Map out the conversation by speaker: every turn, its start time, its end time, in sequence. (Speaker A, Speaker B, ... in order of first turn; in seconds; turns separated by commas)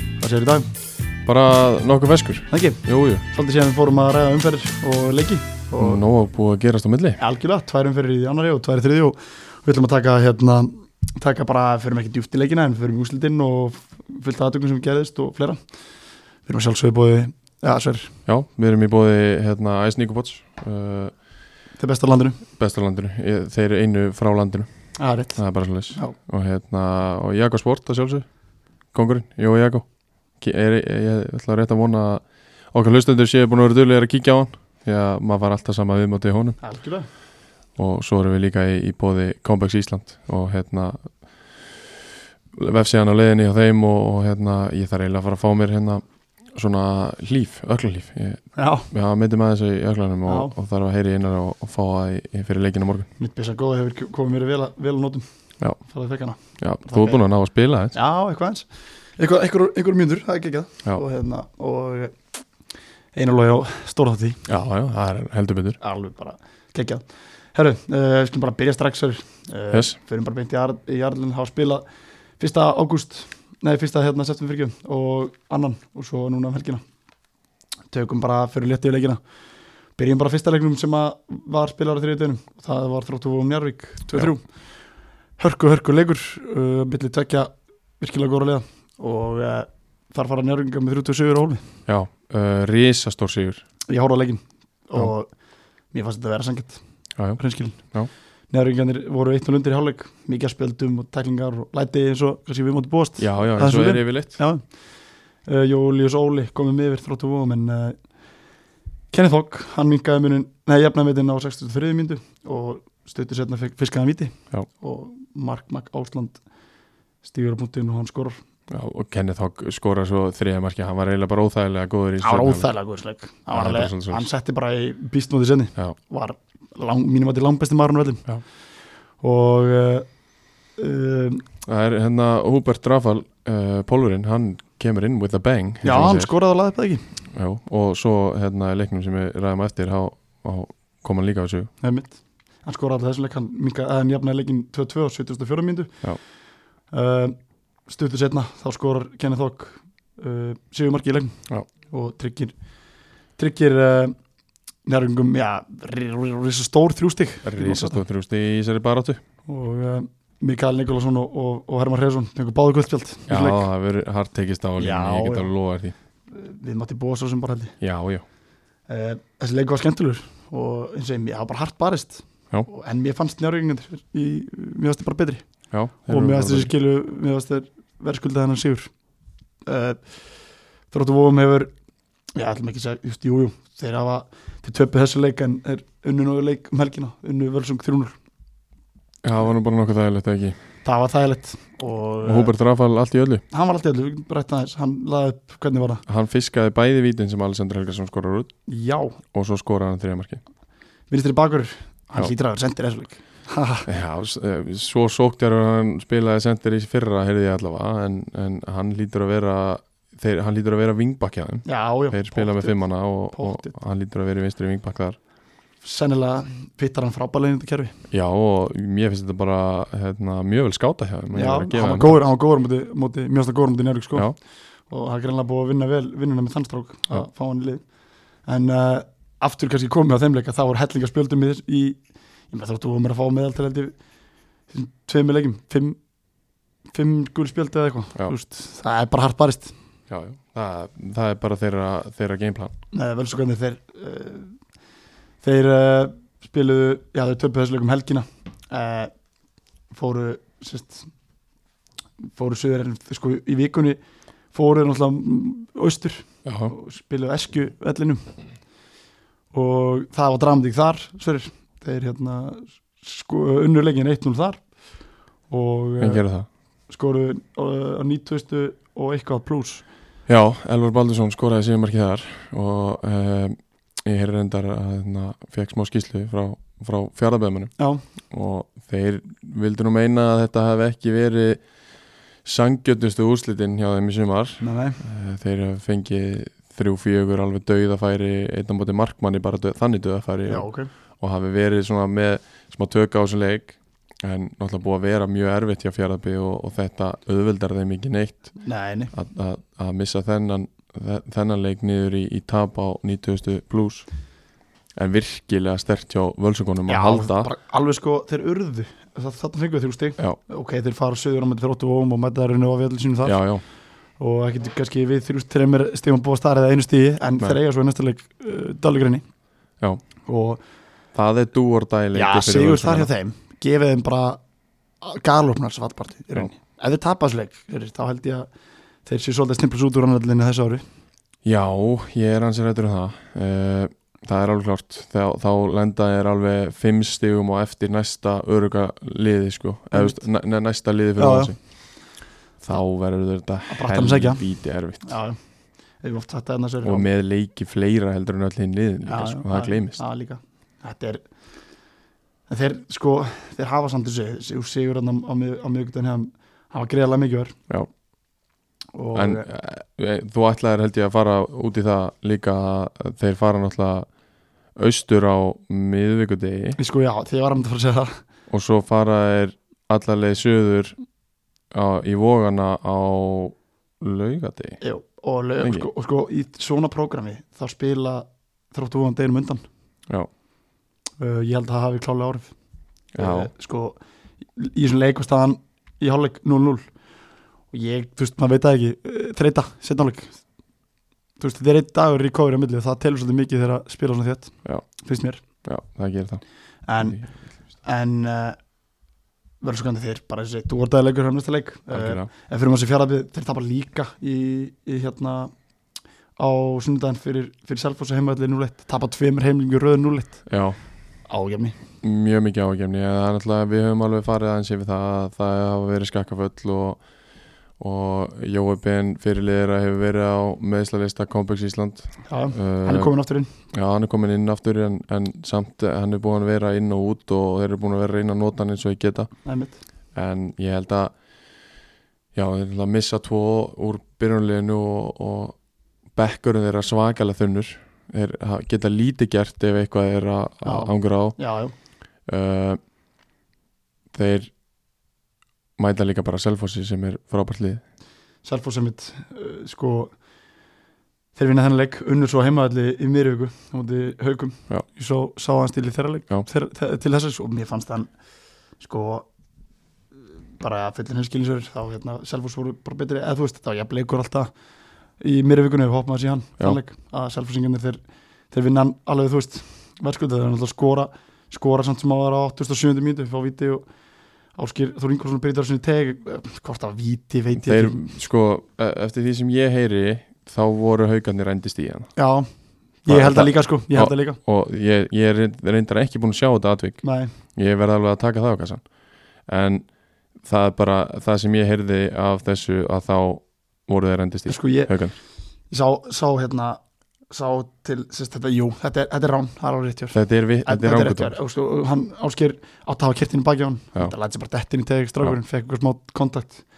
Speaker A: 0.2-0.7, Speaker B: 1.2-3.2, Speaker A: 2.5-6.0, Speaker B: 5.8-7.2, Speaker A: 7.2-15.6, Speaker A: 16.4-18.1, Speaker B: 18.2-21.1, Speaker A: 21.8-22.4, Speaker B: 22.6-24.7, Speaker A: 25.0-25.4, Speaker B: 25.3-28.3, Speaker B: 28.9-29.9, Speaker B: 30.4-36.6, Speaker A: 36.6-37.1, Speaker B: 37.8-41.8, Speaker B: 42.5-53.1, Speaker A: 48.5-48.9, Speaker A: 50.3-50.5, Speaker A: 53.2-55.2, Speaker A: 55.8-57.2, Speaker B: 56.6-57.9, Speaker A: 57.9-58.7, Speaker A: 59.2-62.3, Speaker A: 63.1-64.5, Speaker B: 64.5-65.8, Speaker A: 65.8-71.8, Speaker A: 72.4-76.8, Speaker A: 77.9-79.2, Speaker A: 80.0-84.5, Speaker A: 85.4-91.7, Speaker B: 91.9-93.6, Speaker A: 93.9-95.3, Speaker A: 95.9-96.8, Speaker B: 97.2-98.1, Speaker A: 97.3-97.9, Speaker A: 98.5-104.7, Speaker B: 103.2-104.4, Speaker A: 105.4-108.0, Speaker A: 109.1-116.4, Speaker A: 117.2-118.4, Speaker B: 118.7-122.7, Speaker A: 122.2-128.3, Speaker B: 123.5-124.3, Speaker A: 129.2-130.1, Speaker A: 130.8-131.4, Speaker B: 131.6-136.3, Speaker A: 135.8-137.0, Speaker B: 137.3-141.7, Speaker A: 141.8-146.0, Speaker A: 146.9-152.6, Speaker A: 153.3-154.1, Speaker A: 154.8-158.0, Speaker B: 157.4-159.2, Speaker A: 159.5-163.7, Speaker B: 163.3-165.9, Speaker A: 164.8-165.5, Speaker A: 166.3-167.7, Speaker B: 167.8-168.2, Speaker A: 168.9-175.4, Speaker B: 175.7-176.7, Speaker A: 176.1-178.9, Speaker A: 179.7-180.2, Speaker A: 180.9-181.7, Speaker A: 182.3-188.2, Speaker B: 189.2-190.6, Speaker A: 190.8-192.5, Speaker B: 192.2-193.4, Speaker A: 193.5-196.0, Speaker B: 196.1-198.5, Speaker A: 198.7-199.2, Speaker B: 199.3-200.4, Speaker A: 201.1-203.9, Speaker B: 203.9-215.2, Speaker A: 211.7-212.8, Speaker A: 213.3-213.8, Speaker A: 215.8-218.0, Speaker B: 218.1-222.2, Speaker A: 221.3-227.8, Speaker A: 228.4-233.9, Speaker A: 234.7-236.0, Speaker A: 236.9-239.7, Speaker B: 240.1-242.7, Speaker A: 242.9-244.6, Speaker A: 245.4-249.1, Speaker A: 249.9-251.1, Speaker A: 252.3-254.0, Speaker A: 254.5-258.2, Speaker B: 256.4-256.7, Speaker A: 259.5-264.7, Speaker A: 265.5-266.2, Speaker B: 266.0-266.5, Speaker A: 266.9-269.8, Speaker B: 270.3-277.7, Speaker B: 278.3-281.6, Speaker B: 282.4-290.7, Speaker A: 284.6-285.0, Speaker A: 290.4-290.9, Speaker B: 291.2-304.1, Speaker A: 298.6-299.1, Speaker B: 304.9-307.5, Speaker A: 306.9-313.4, Speaker B: 313.2-313.6, Speaker A: 314.2-319.2, Speaker A: 320.2-320.6, Speaker B: 321.1-323.1, Speaker A: 322.1-324.4, Speaker A: 325.0-328.5, Speaker A: 329.1-330.8, Speaker B: 331.4-341.6, Speaker A: 339.9-340.2, Speaker A: 341.2-341.5, Speaker B: 342.6-345.2, Speaker A: 343.7-344.4, Speaker A: 345.0-345.4, Speaker A: 346.0-347.1, Speaker B: 346.8-350.0, Speaker A: 349.1-351.3, Speaker A: 352.5-357.6, Speaker A: 358.9-359.4, Speaker B: 359.1-364.1, Speaker B: 364.7-366.8, Speaker A: 366.8-368.2, Speaker B: 368.5-370.9, Speaker B: 371.7-374.8, Speaker A: 374.8-379.6, Speaker B: 375.6-375.9, Speaker A: 381.2-382.5, Speaker B: 383.1-383.5, Speaker A: 383.2-384.0, Speaker A: 384.5-386.8, Speaker A: 387.7-390.4, Speaker A: 391.4-395.4, Speaker B: 395.6-396.4, Speaker A: 396.9-398.6, Speaker B: 397.0-397.2, Speaker A: 399.6-405.5, Speaker B: 401.9-402.3, Speaker A: 406.4-410.5, Speaker B: 410.5-410.8, Speaker A: 411.3-411.7, Speaker B: 412.0-417.0, Speaker B: 417.8-423.1, Speaker A: 422.2-423.5, Speaker B: 423.7-429.3, Speaker A: 429.4-429.8, Speaker B: 430.1-431.1, Speaker B: 432.3-435.6, Speaker B: 436.1-441.4, Speaker A: 440.6-441.7, Speaker B: 442.3-442.8, Speaker B: 444.1-444.5, Speaker B: 445.8-447.8, Speaker A: 448.4-450.1, Speaker A: 451.3-458.1, Speaker A: 458.8-459.3, Speaker A: 460.6-464.5, Speaker A: 465.2-468.0, Speaker A: 468.5-473.8, Speaker A: 474.5-478.1, Speaker B: 477.5-482.1, Speaker A: 482.1-482.5, Speaker A: 483.0-484.4, Speaker B: 483.1-488.8, Speaker A: 487.0-487.3, Speaker B: 489.4-489.9, Speaker B: 490.4-495.1, Speaker A: 494.5-495.1, Speaker A: 495.7-506.6, Speaker B: 500.1-501.3